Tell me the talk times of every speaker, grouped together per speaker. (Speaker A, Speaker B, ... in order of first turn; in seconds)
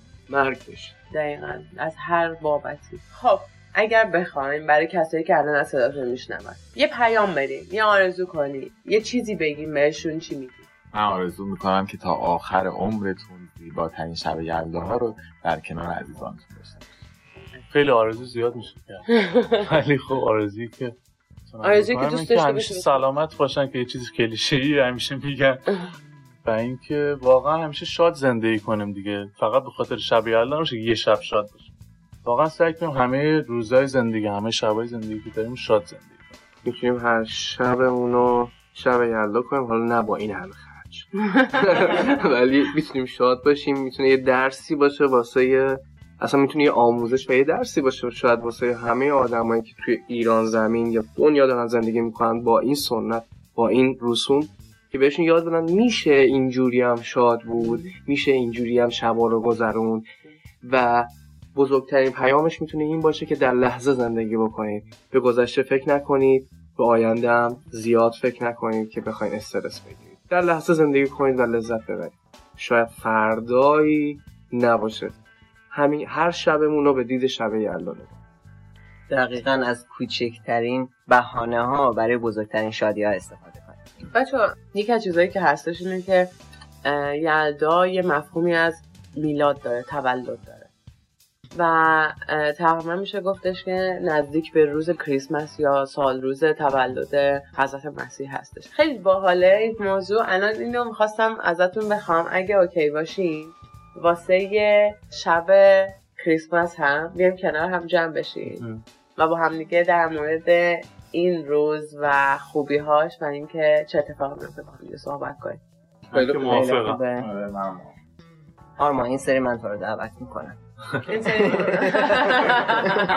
Speaker A: 0.3-0.9, 36.6-60.1, 60.6-75.1, 75.7-78.1, 116.2-116.5
Speaker B: 1.1-10.7, 19.2-19.6, 21.6-23.1, 41.2-41.5, 57.6-57.9, 84.1-90.7, 91.5-108.6, 109.2-115.6, 116.8-117.1, 121.0-123.0
Speaker C: 10.9-16.9, 117.2-117.9
Speaker D: 17.7-20.9, 21.5-25.7, 26.4-31.7, 32.2-36.4, 108.5-108.8, 116.1-117.0
Speaker E: 79.1-83.9, 116.4-117.1, 118.8-120.6, 121.4-122.2